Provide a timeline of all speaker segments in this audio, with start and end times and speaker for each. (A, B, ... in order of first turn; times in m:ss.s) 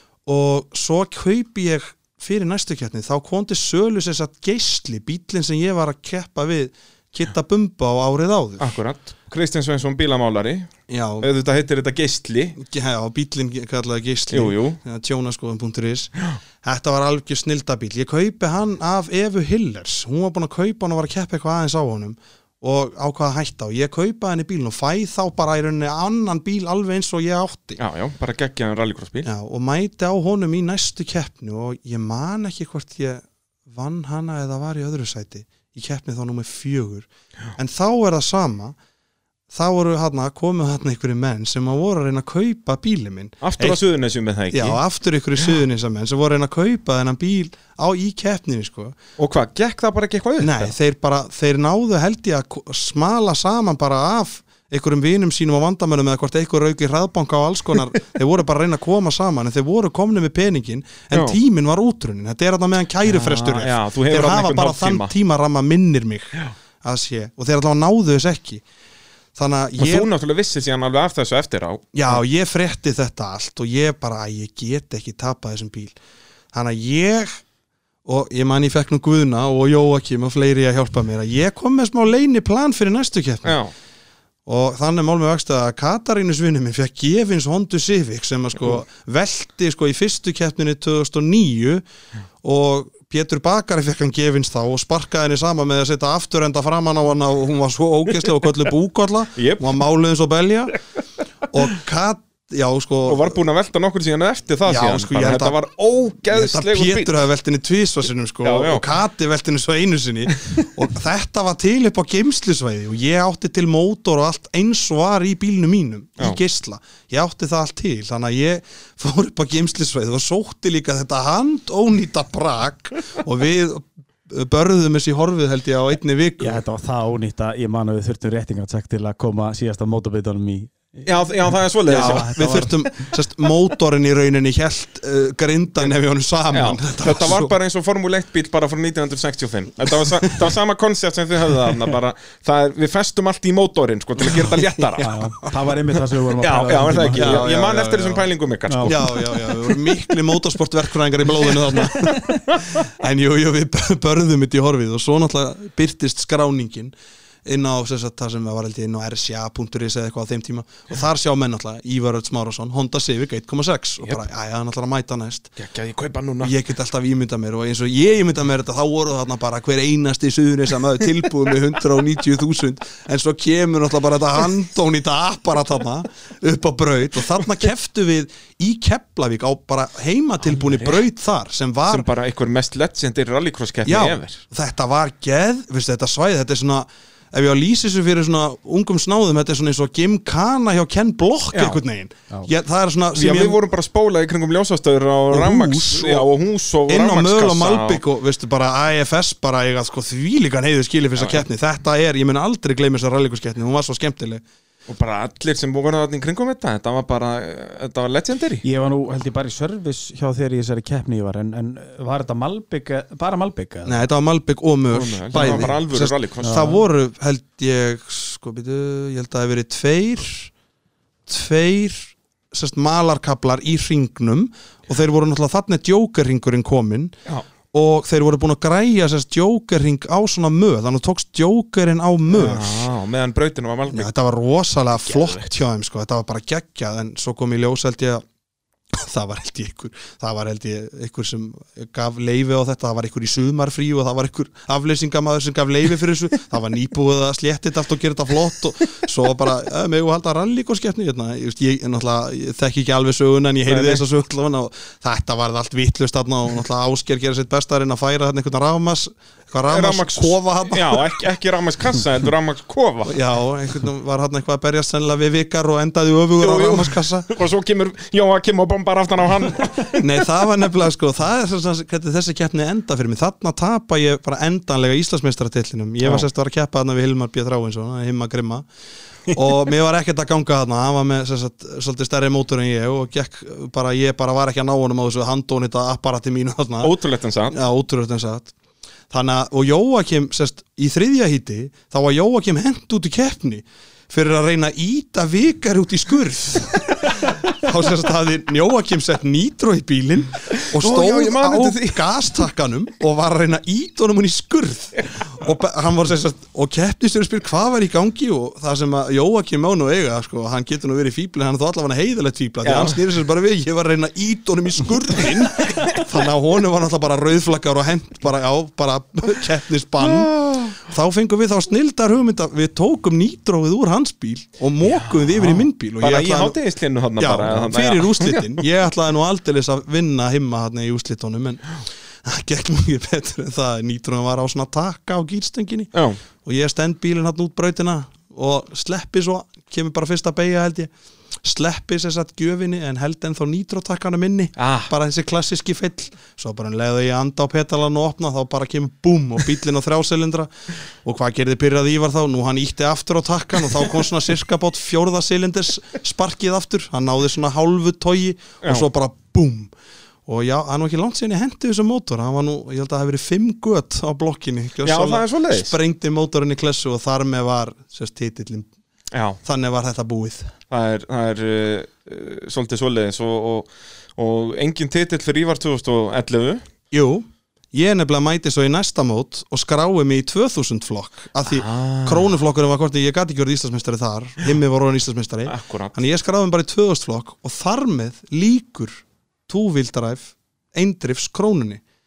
0:00.2-0:08.8 A
0:08.6-0:10.7 B
0:10.9-0:11.3 A
0:11.2-0:12.6 B
0:12.6-0:27.8 A
0:14.3-0:14.8 B
0:27.8-0:29.3 B
0:29.2-0:38.7 A
0:39.5-0:43.8 A
0:43.4-0:44.8 B
0:44.5-0:49.0 A
0:49.2-0:50.7 B
0:50.4-1:08.6 A
1:01.1-1:01.4 B
1:03.0-1:05.1 B
1:09.4-1:10.1 A
1:09.8-1:12.2 B
1:11.9-1:15.9 A
1:16.5-1:17.4 A
1:18.0-1:23.6 A
1:23.4-1:23.7 B
1:24.4-1:31.8 A
1:32.4-1:40.8 A
1:39.4-1:39.8 B
1:41.5-1:43.4 A
1:43.0-1:47.1 B
1:44.6-1:45.6 A
1:46.3-2:06.6 A
1:48.4-1:48.9 B
2:06.4-2:11.1 C
2:11.0-2:12.6 B
2:11.8-2:12.7 C
2:11.9-2:17.5 A
2:16.5-2:25.2 B
2:24.9-2:25.1 A
2:25.0-2:27.5 C
2:26.4-2:29.2 B
2:27.1-2:28.3 A
2:28.7-2:29.0 C
2:28.8-2:36.9 A
2:37.4-2:45.6 A
2:45.6-2:46.5 B
2:46.4-3:02.1 A
3:00.5-3:01.0 B
3:01.9-3:04.4 B
3:03.8-3:13.6 A
3:11.5-3:11.8 B
3:13.1-3:18.0 B
3:15.3-3:16.3 A
3:16.9-3:24.4 A
3:21.2-3:21.4 B
3:24.9-3:28.6 B
3:28.6-3:34.0 C
3:33.8-3:40.5 A
3:34.9-3:36.7 B
3:36.4-3:36.8 C
3:41.3-3:47.1 A
3:47.7-3:52.9 A
3:52.3-3:54.1 B
3:53.9-3:58.2 A
3:55.0-3:55.5 B
3:58.9-4:21.2 A
4:13.7-4:14.0 B
4:19.7-4:23.2 B
4:23.0-4:27.3 A
4:26.4-4:30.2 B
4:30.0-4:38.6 A
4:36.0-4:36.3 B
4:39.3-4:46.9 A
4:46.8-4:47.6 B
4:47.5-4:48.5 A
4:49.1-5:26.6 A
5:00.5-5:02.4 B
5:12.6-5:13.0 B
5:15.6-5:16.0 B
5:20.0-5:20.8 B
5:24.8-5:28.6 B
5:27.2-5:35.9 A
5:35.9-5:36.2 B
5:36.4-5:40.9 A
5:41.4-5:50.5 A
5:44.6-5:44.9 B
5:51.0-5:59.7 A
6:00.3-6:08.7 A
6:04.8-6:05.7 B
6:09.1-6:09.4 B
6:09.4-6:10.5 A
6:10.7-6:16.6 B
6:16.9-6:31.8 A
6:21.4-6:22.3 B
6:25.4-6:26.0 B